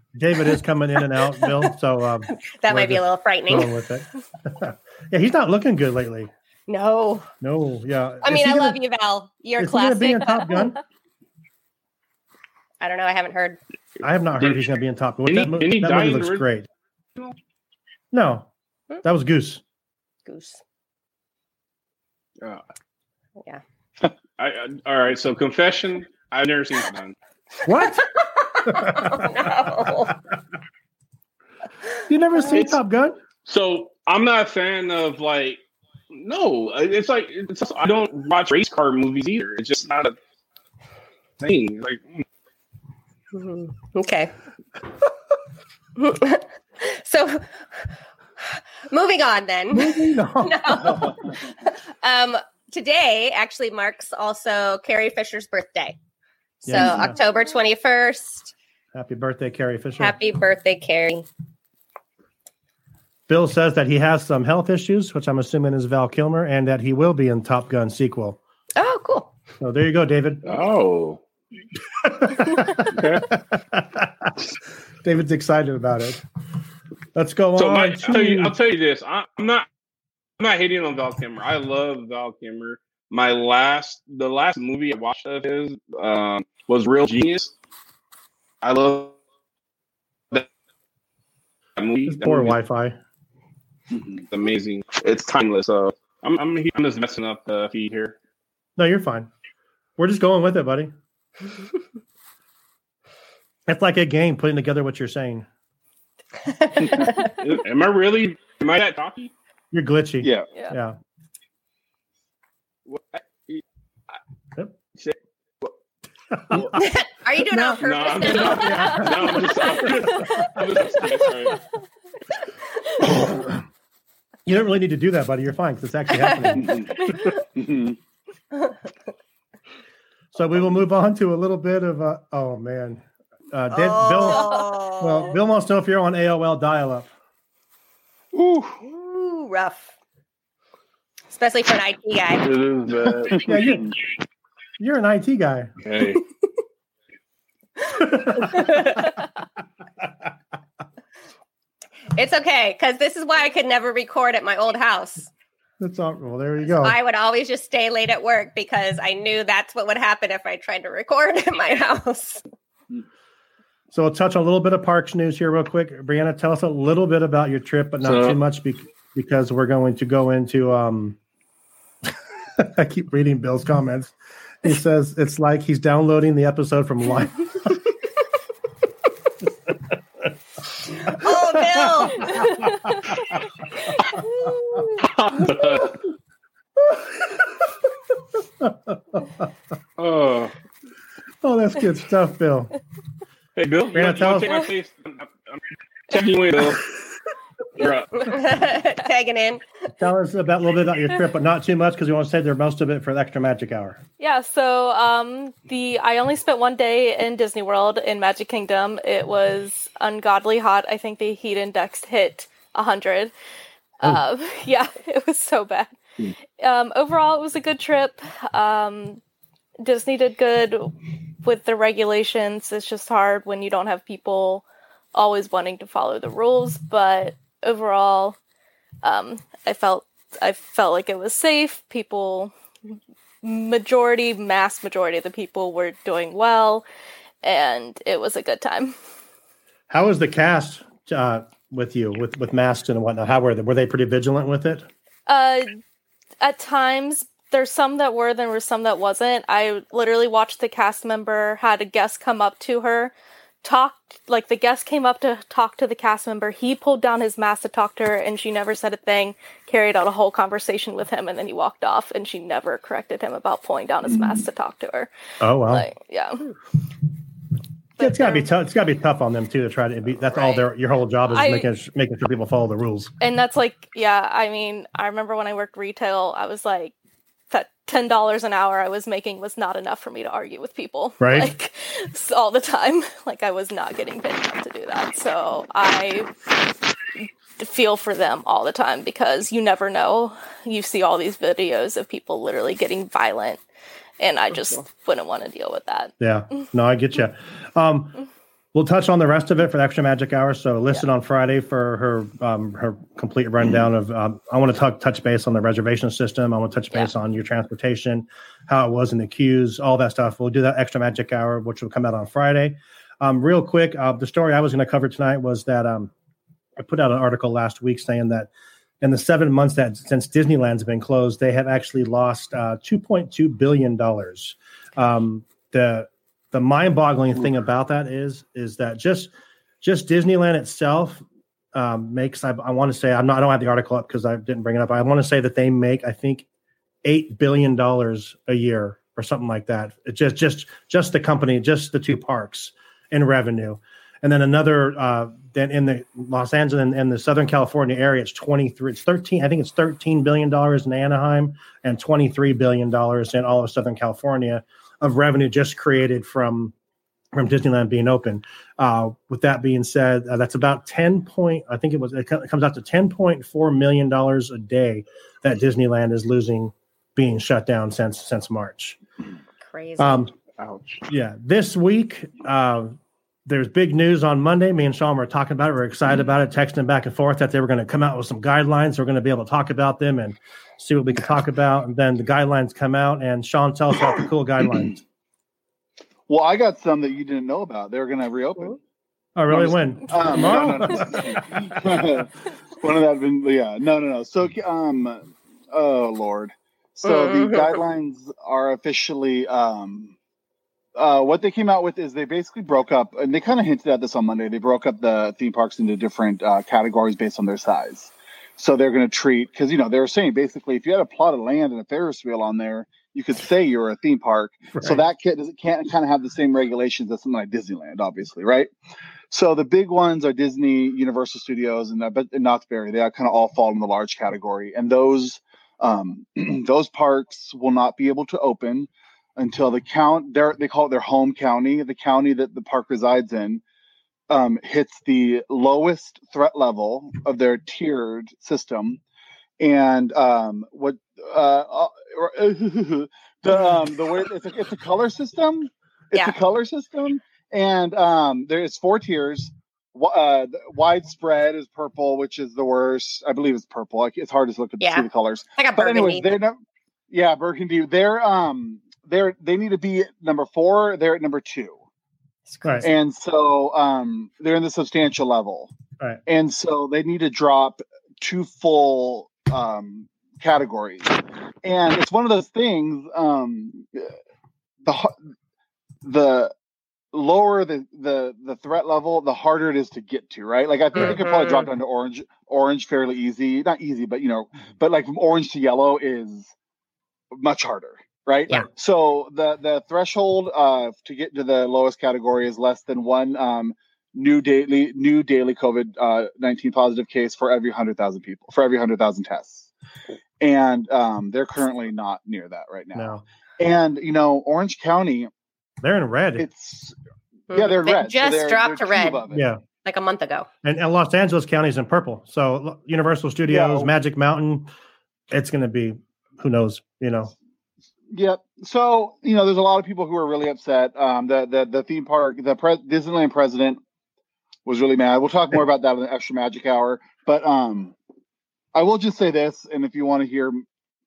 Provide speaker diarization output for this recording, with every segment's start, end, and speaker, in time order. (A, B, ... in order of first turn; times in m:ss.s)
0:00.1-0:06.3 A
0:02.4-0:03.7 B
0:06.7-0:07.3 B
0:07.4-0:08.8 A
0:08.2-0:10.6 B
0:09.6-0:10.8 A
0:12.8-0:13.6 B
0:14.0-0:16.7 A
0:15.2-0:16.5 C
0:18.1-0:18.5 A
0:19.0-0:19.6 A
0:20.2-0:20.6 B
0:24.4-0:27.2 C
0:27.6-0:28.1 A
0:28.0-0:30.1 B
0:28.6-0:30.1 A
0:32.1-0:33.2 A
0:33.4-0:40.1 C
0:41.4-0:42.2 C
0:43.3-0:44.3 B
0:46.0-0:47.8 B
0:48.4-0:56.0 B
0:49.7-0:51.2 A
0:56.6-0:58.5 B
0:56.6-0:57.2 A
0:58.9-1:00.2 A
1:00.0-1:01.3 B
1:03.3-1:08.4 A
1:08.8-1:09.3 B
1:09.6-1:10.4 A
1:10.4-1:11.2 C
1:12.0-1:14.3 A
1:12.8-1:13.3 C
1:15.0-1:16.2 A
1:17.1-1:18.5 A
1:17.6-1:19.7 C
1:20.4-1:27.5 C
1:28.6-1:29.2 C
1:31.8-1:32.6 C
1:32.1-1:33.0 A
1:34.1-1:38.2 C
1:38.8-1:39.3 A
1:40.0-1:40.9 A
1:43.7-1:45.5 A
1:46.5-1:47.2 B
1:47.4-1:49.3 C
1:49.7-1:51.0 A
1:50.2-1:50.5 D
1:52.8-1:53.6 C
1:55.0-1:55.7 C
1:56.3-1:56.8 A
1:56.8-1:59.0 B
1:57.5-2:00.6 A
1:57.8-2:01.6 C
2:04.4-2:06.9 A
2:06.6-2:08.0 D
2:10.3-2:14.5 A
2:13.7-2:15.4 B
2:15.0-2:17.1 A
2:18.3-2:18.8 D
2:18.8-2:19.9 B
2:21.3-2:22.4 B
2:22.4-2:23.5 C
2:23.2-2:23.9 D
2:23.4-2:23.9 A
2:24.8-2:25.7 A
2:25.8-2:26.2 C
2:27.9-2:29.0 A
2:28.4-2:29.1 B
2:32.2-2:35.3 B
2:35.8-2:37.0 A
2:36.6-2:42.4 B
2:43.9-2:51.2 A
2:48.0-2:48.4 C
2:52.6-2:57.8 A
3:01.0-3:02.4 B
3:01.1-3:03.3 A
3:05.0-3:06.0 C
3:06.8-3:07.6 A
3:08.6-3:09.5 A
3:10.0-3:10.5 C
3:11.4-3:12.7 A
3:13.6-3:16.9 C
3:13.9-3:14.6 A
3:17.7-3:18.2 C
3:18.2-3:19.6 B
3:20.0-3:24.0 A
3:24.2-3:33.3 E
3:34.0-3:36.0 E
3:36.6-3:39.2 E
3:39.8-3:48.4 E
3:49.0-3:56.8 E
3:57.4-3:59.0 E
3:59.9-4:04.9 A
4:05.3-4:05.8 E
4:06.4-4:25.1 E
4:24.1-4:24.4 D
4:25.4-4:25.9 A
4:25.7-4:26.5 E
4:28.0-4:28.5 E
4:28.0-4:33.1 A
4:31.3-4:31.7 E
4:33.2-4:36.9 E
4:37.5-4:46.3 E
4:41.2-4:41.5 A
4:47.2-4:53.6 E
4:54.2-4:56.6 E
4:56.2-4:58.2 A
4:58.7-5:16.1 A
5:16.8-5:18.5 A
5:19.0-5:36.4 A
5:37.0-5:56.7 A
5:57.3-6:09.0 A
6:09.6-6:10.3 B
6:10.0-6:10.3 A
6:10.6-6:11.0 C
6:11.1-6:12.9 A
6:13.4-6:25.0 A
6:26.3-6:28.8 D
6:29.4-6:32.1 A
6:29.5-6:40.2 D
6:37.0-6:37.8 B
6:40.9-6:58.7 D
6:54.7-6:55.0 A
6:59.3-7:13.6 D
7:14.3-7:19.0 D
7:19.6-7:36.6 D
7:34.8-7:36.3 B
7:37.1-7:41.8 D
7:42.5-7:42.9 B
7:42.6-7:42.9 A
7:42.8-7:45.7 D
7:46.2-7:54.1 D
7:54.8-7:55.1 D
7:56.0-7:56.5 D
7:57.1-8:06.5 D
8:00.9-8:01.7 B
8:07.3-8:19.7 D
8:20.4-8:25.3 D
8:22.9-8:23.2 A
8:25.8-8:26.5 A
8:26.4-8:26.9 D
8:27.5-8:29.2 B
8:27.5-8:29.4 D
8:29.3-8:29.6 A
8:29.8-8:30.5 B
8:30.6-8:34.7 A
8:33.5-8:33.9 D
8:35.3-8:37.3 A
8:38.1-8:43.8 D
8:44.6-8:48.0 D
8:48.7-8:50.6 D